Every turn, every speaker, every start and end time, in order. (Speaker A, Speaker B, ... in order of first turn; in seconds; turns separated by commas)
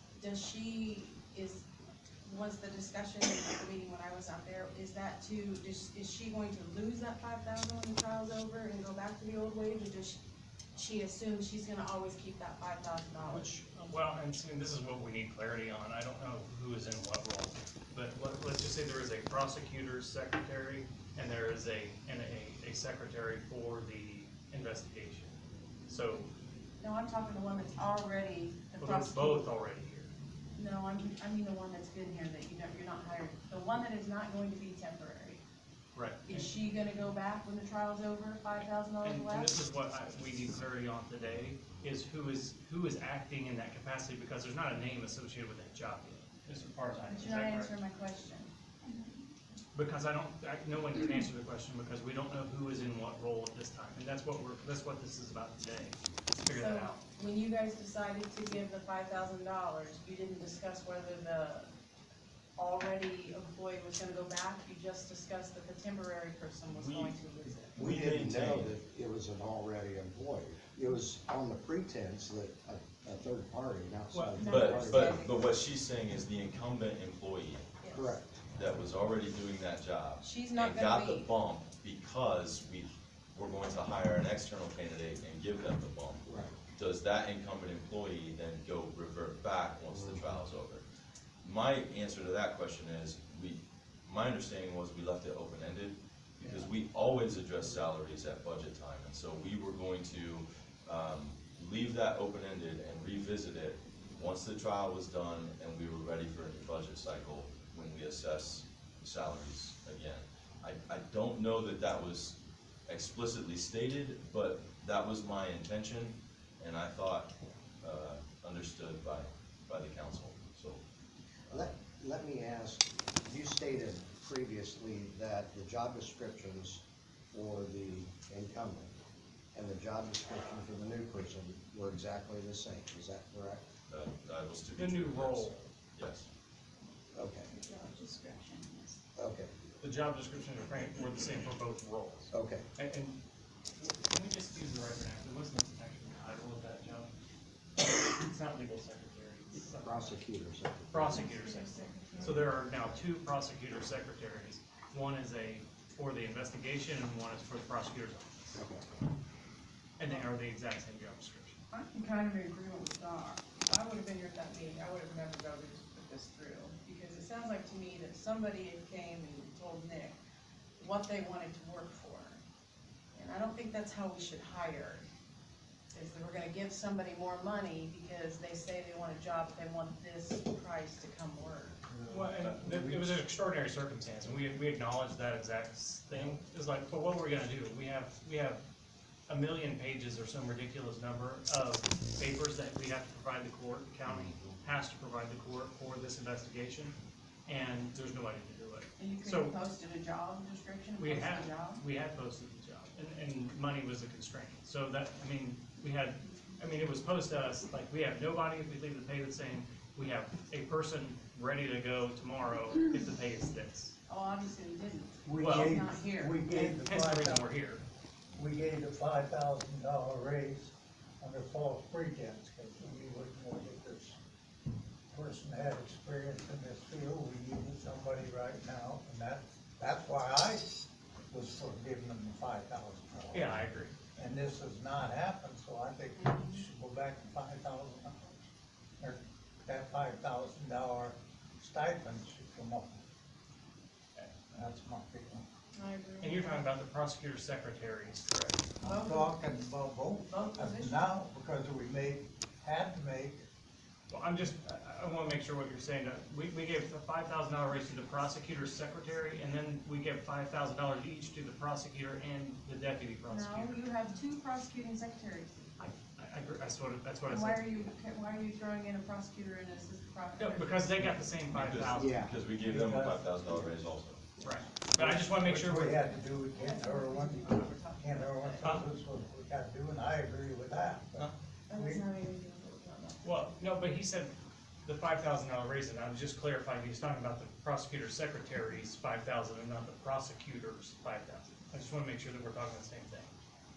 Speaker A: 0.1-1.6, Speaker A: 2.2-10.2, Speaker A: 10.7-13.5, Speaker B: 13.3-25.3, Speaker B: 25.9-26.3, Speaker A: 26.8-29.5, Speaker B: 28.8-30.1, Speaker A: 30.6-35.4, Speaker B: 35.9-36.5, Speaker A: 36.2-39.6, Speaker B: 39.0-47.7, Speaker A: 47.1-48.5, Speaker B: 49.7-56.9, Speaker A: 56.5-61.7, Speaker A: 62.6-67.8, Speaker C: 66.7-67.1, Speaker C: 67.7-68.7, Speaker D: 67.8-75.3, Speaker B: 74.1-74.5, Speaker A: 74.4-75.5, Speaker C: 74.5-77.8, Speaker A: 77.8-78.1, Speaker D: 77.9-78.4, Speaker C: 78.5-90.8, Speaker A: 80.2-81.3, Speaker D: 86.2-86.6, Speaker C: 91.4-112.3, Speaker B: 96.4-96.7, Speaker C: 112.9-120.8, Speaker D: 121.5-128.9, Speaker D: 129.5-133.6, Speaker C: 133.9-136.3, Speaker B: 134.7-135.5, Speaker D: 137.1-137.5, Speaker A: 137.5-139.0, Speaker D: 139.2-139.5, Speaker B: 139.8-143.2, Speaker D: 142.3-142.6, Speaker B: 143.8-147.1, Speaker B: 147.8-150.2, Speaker D: 149.8-151.3, Speaker B: 150.9-158.6, Speaker A: 151.0-152.5, Speaker D: 158.5-158.8, Speaker B: 160.0-161.6, Speaker A: 161.7-170.2, Speaker A: 170.8-172.4, Speaker A: 173.1-175.1, Speaker A: 175.9-181.8, Speaker E: 181.9-183.2, Speaker B: 182.1-188.6, Speaker B: 189.3-199.5, Speaker A: 199.0-201.8, Speaker B: 201.0-213.9, Speaker A: 206.3-206.6, Speaker A: 214.1-216.4, Speaker E: 215.2-217.5, Speaker B: 215.4-215.8, Speaker B: 216.5-217.8, Speaker E: 218.3-224.2, Speaker E: 225.1-230.7, Speaker E: 231.3-233.6, Speaker B: 233.3-233.9, Speaker E: 234.2-238.3, Speaker A: 236.2-236.7, Speaker E: 239.0-243.0, Speaker E: 244.5-245.4, Speaker A: 245.7-246.6, Speaker B: 246.2-248.7, Speaker E: 248.8-253.4, Speaker A: 248.8-249.4, Speaker A: 250.2-251.1, Speaker B: 254.1-263.8, Speaker A: 263.3-265.6, Speaker B: 265.8-267.7, Speaker A: 267.3-271.1, Speaker B: 270.4-272.3, Speaker C: 271.5-274.2, Speaker D: 271.9-272.4, Speaker E: 272.6-273.9, Speaker B: 274.4-276.1, Speaker E: 274.9-282.0, Speaker A: 276.2-278.7, Speaker A: 281.7-283.4, Speaker B: 283.2-284.3, Speaker B: 284.8-293.3